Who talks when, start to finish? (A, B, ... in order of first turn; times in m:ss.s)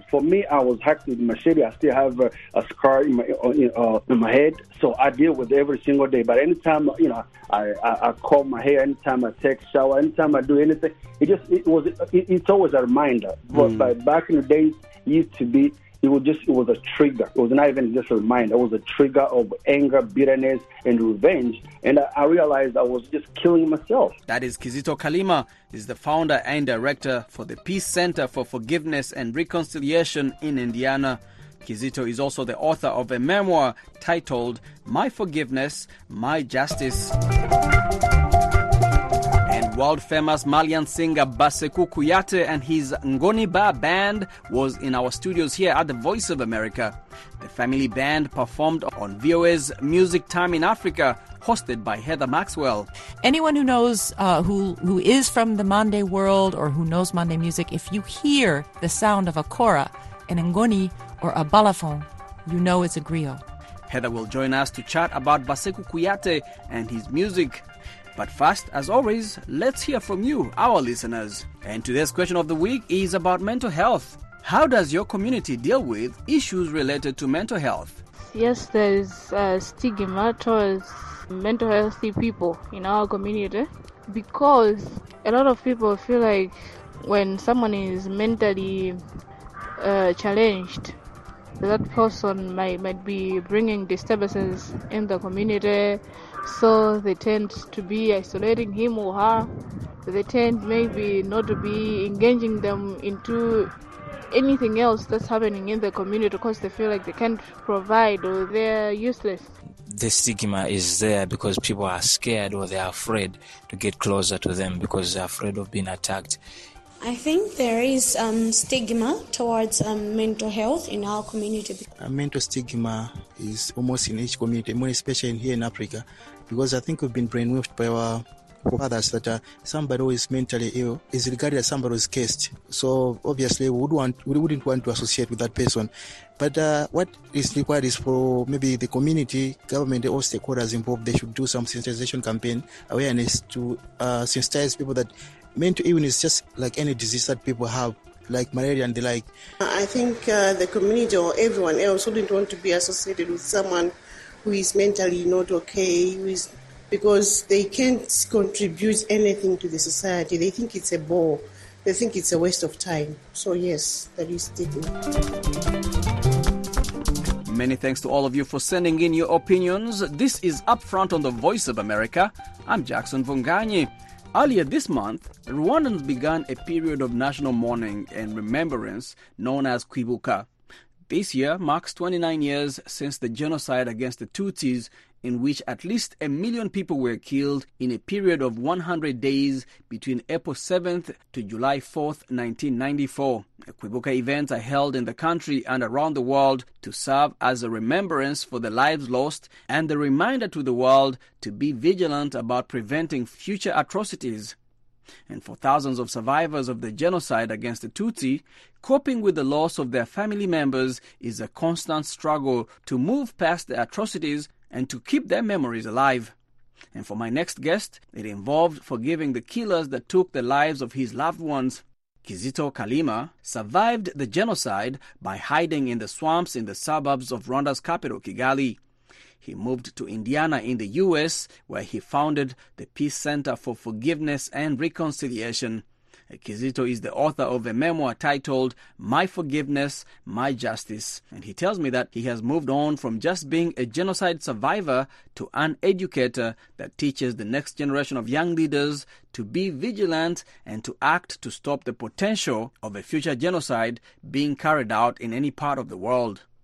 0:00.1-0:24.2 A
0:13.5-0:13.9 B
0:24.3-0:37.2 B
0:39.4-0:52.9 B
0:53.2-1:03.4 C
1:03.9-1:07.6 B
1:08.2-1:18.0 B
1:18.3-1:29.0 D
1:29.8-1:31.0 D
1:31.6-1:39.5 D
1:40.0-1:43.7 D
1:44.3-1:49.5 D
1:49.9-1:56.4 E
1:57.0-2:01.8 F
2:02.0-2:29.3 G
2:29.6-2:44.9 H
2:47.4-3:00.5 B
3:01.1-3:24.6 B
3:25.3-3:36.3 B
3:36.9-3:48.8 B
3:49.4-4:16.4 B